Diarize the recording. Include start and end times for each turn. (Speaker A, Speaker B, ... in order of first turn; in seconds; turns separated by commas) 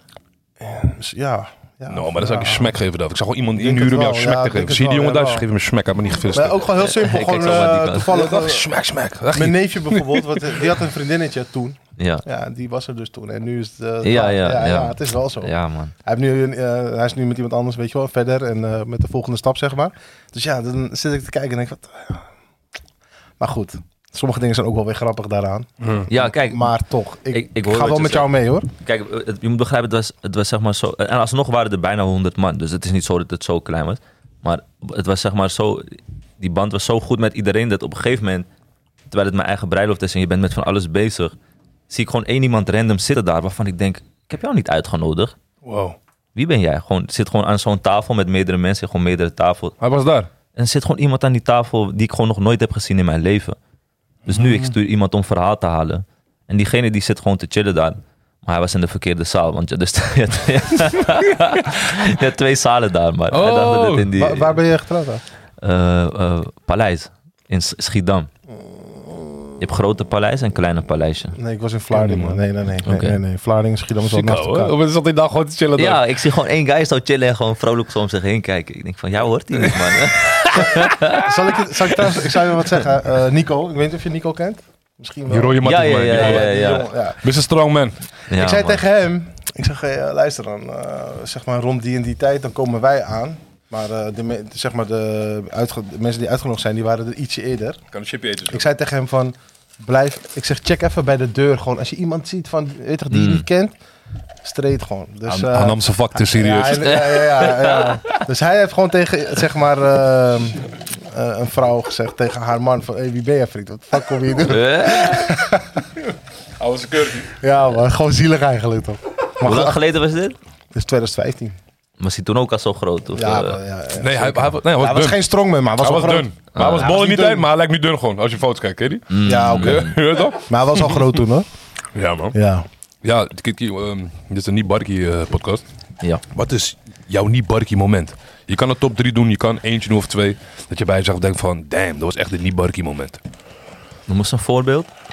Speaker A: 0.6-2.7, Speaker B: 1.9-6.6, Speaker A: 3.6-5.5, Speaker A: 6.3-8.7, Speaker C: 6.8-8.1, Speaker B: 8.1-10.7, Speaker A: 9.3-15.5, Speaker C: 12.0-12.2, Speaker C: 14.0-15.9, Speaker A: 16.0-22.2, Speaker A: 23.4-28.7, Speaker B: 25.8-26.1, Speaker C: 26.1-26.7, Speaker C: 27.3-38.5, Speaker C: 39.1-41.3, Speaker C: 41.9-45.4, Speaker B: 45.6-46.0, Speaker C: 46.3-49.8, Speaker B: 49.8-50.3, Speaker C: 50.5-53.6, Speaker C: 54.2-64.6, Speaker B: 54.3-54.7, Speaker B: 63.3-64.1, Speaker A: 64.1-65.2, Speaker C: 65.6-68.3, Speaker A: 68.6-69.5, Speaker C: 69.6-71.4, Speaker A: 71.3-74.7, Speaker B: 71.9-72.4, Speaker C: 72.8-73.2, Speaker B: 74.0-76.0, Speaker C: 75.8-81.3, Speaker A: 81.0-87.2, Speaker B: 85.3-86.7, Speaker C: 85.6-86.9, Speaker B: 87.2-88.0, Speaker C: 88.3-88.8, Speaker A: 88.3-97.8, Speaker B: 97.9-98.7, Speaker A: 98.5-103.7, Speaker C: 103.1-103.5, Speaker A: 104.4-115.9, Speaker B: 105.2-107.2, Speaker C: 106.8-108.2, Speaker C: 114.4-115.4, Speaker B: 116.6-117.4, Speaker A: 117.3-119.8, Speaker C: 119.4-120.3, Speaker A: 120.7-121.6, Speaker C: 122.0-123.6, Speaker A: 123.2-127.5, Speaker B: 124.0-125.2, Speaker B: 125.8-131.1, Speaker C: 126.5-127.0, Speaker C: 129.1-130.0, Speaker A: 129.2-131.5, Speaker B: 131.9-132.3, Speaker A: 132.3-132.7, Speaker B: 133.0-135.6, Speaker B: 136.3-143.2, Speaker C: 144.1-144.9